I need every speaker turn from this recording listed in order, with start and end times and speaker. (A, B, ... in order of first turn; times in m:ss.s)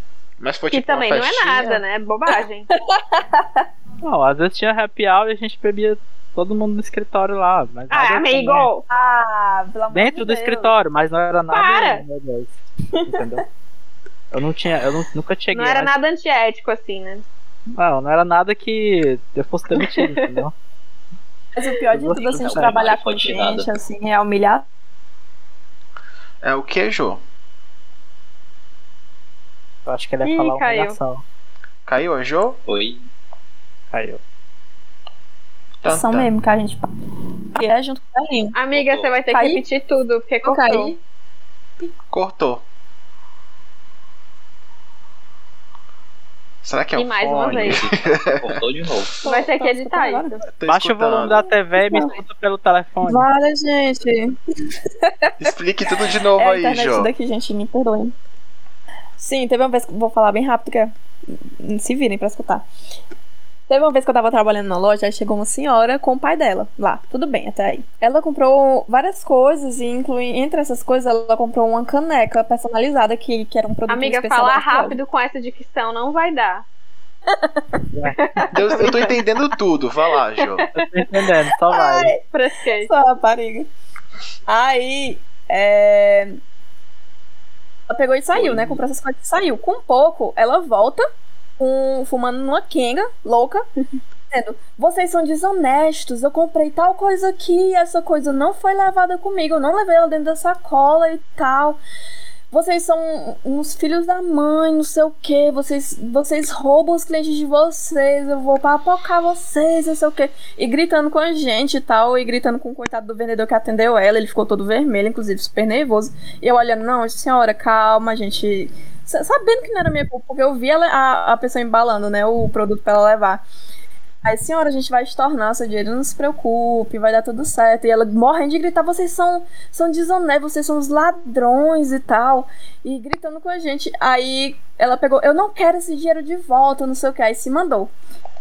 0:00.4-0:01.8 A
0:00.7-0:02.7 B
0:02.7-0:03.6 C
0:04.0-0:08.7 D
0:07.9-0:08.8 B
0:08.9-0:10.7 C
0:09.9-0:13.4 D
0:11.5-0:12.0 B
0:12.9-0:13.2 C
0:14.3-0:16.0 D
0:15.5-0:17.2 B
0:17.8-0:20.5 D
0:19.8-0:20.4 B
0:21.5-0:24.6 C
0:21.9-0:22.8 D
0:22.3-0:23.7 E
0:26.4-0:27.2 A
0:29.8-0:31.2 D
0:30.2-0:31.0 B
0:31.8-0:32.6 A
0:32.6-0:33.0 E
0:33.9-0:34.2 D
0:35.8-0:36.3 A
0:35.8-0:36.9 C
0:37.5-0:38.5 C
0:38.5-0:40.9 B
0:38.7-0:39.2 E
0:39.3-0:39.6 C
0:40.4-0:41.0 C
0:42.1-0:42.6 A
0:46.6-0:48.6 A
0:46.9-0:47.8 B
0:47.5-0:49.2 E
0:49.2-0:50.4 C
0:49.2-0:50.4 B
0:50.6-0:51.4 A
0:50.6-0:53.3 D
0:51.8-0:52.1 C
0:53.1-0:54.4 C
0:55.0-0:55.3 C
0:55.4-0:57.1 A
0:56.4-0:58.1 C
0:59.2-1:00.9 C
1:01.6-1:02.6 C
1:03.7-1:15.0 C
1:13.9-1:16.6 B
1:17.3-1:17.8 C
1:17.9-1:18.2 D
1:18.2-1:19.0 B
1:18.5-1:19.1 C
1:18.5-1:20.6 A
1:20.4-1:20.7 B
1:20.7-1:22.1 D
1:21.7-1:23.7 C
1:22.3-1:22.9 B
1:24.5-1:26.4 C
1:27.9-1:31.0 C
1:28.3-1:28.8 E
1:31.6-1:33.6 C
1:34.3-1:41.8 C
1:42.5-2:03.4 C
2:04.2-2:17.9 C